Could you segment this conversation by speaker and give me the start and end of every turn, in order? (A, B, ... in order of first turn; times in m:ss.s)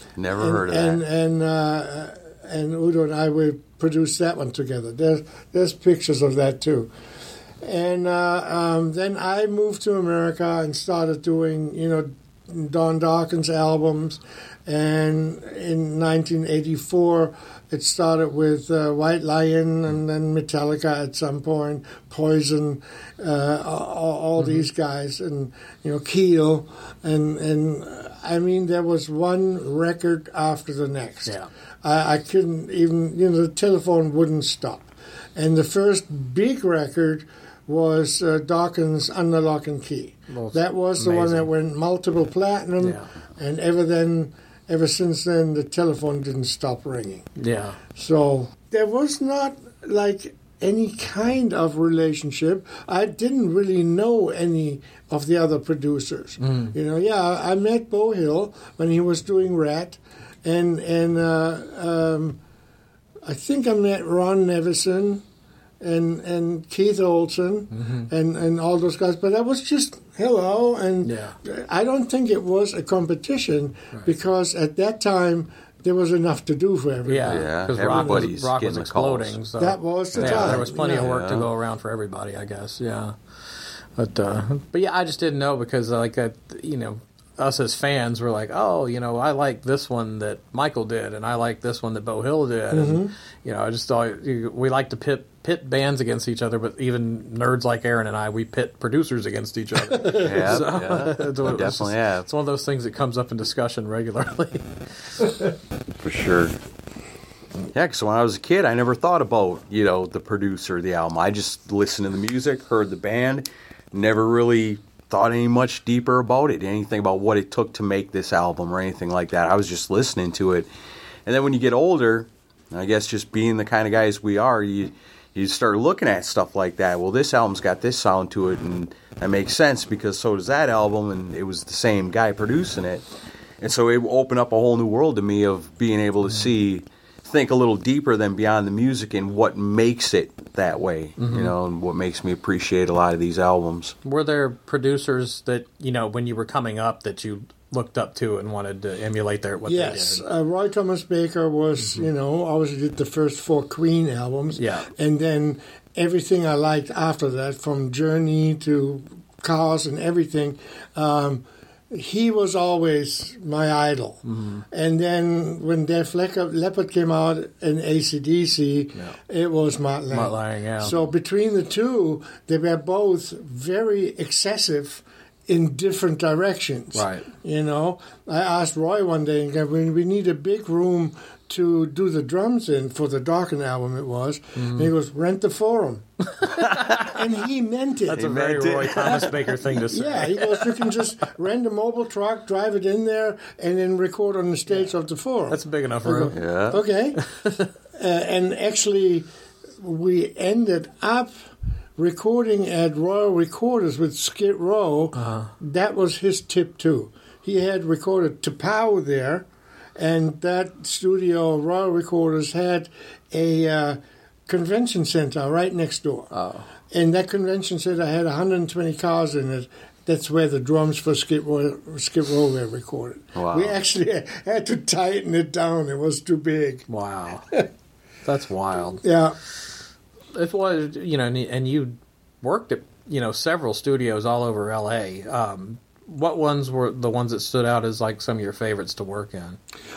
0:00.2-0:01.0 A
0:00.3-0:06.9 B
0:07.6-0:47.2 B
0:24.4-0:24.6 C
0:40.3-0:41.5 C
0:42.8-0:43.1 C
0:47.4-0:47.8 C
0:47.9-1:02.4 B
0:56.4-0:56.8 C
1:03.2-1:05.2 B
1:05.8-1:18.3 B
1:07.7-1:08.1 C
1:11.0-1:11.4 C
1:17.0-1:23.1 C
1:17.3-1:19.4 A
1:19.6-1:21.1 B
1:20.1-1:21.5 A
1:24.0-1:45.1 C
1:32.7-1:33.1 B
1:39.8-1:40.7 B
1:40.2-1:42.3 A
1:46.0-1:46.5 A
1:47.7-2:00.7 A
2:01.2-2:13.0 A
2:13.6-2:24.0 A
2:21.2-2:21.5 C
2:24.0-2:30.2 C
2:29.6-3:06.0 B
2:34.6-2:34.9 C
2:44.2-2:44.6 C
2:50.1-2:50.9 C
2:56.9-2:57.3 C
3:04.6-3:04.9 C
3:06.3-3:07.1 C
3:06.9-3:08.3 B
3:08.1-3:10.8 C
3:08.1-3:09.4 A
3:09.0-3:17.2 B
3:15.5-3:16.4 C
3:16.3-3:16.8 A
3:17.2-3:17.7 C
3:18.0-3:19.3 B
3:19.8-3:21.4 B
3:22.0-3:36.3 B
3:25.1-3:25.5 C
3:36.3-3:36.7 C
3:36.9-3:46.9 B
3:43.3-3:43.8 A
3:46.9-3:47.5 C
3:48.2-3:49.0 C
3:49.0-3:49.4 B
3:50.3-3:59.6 C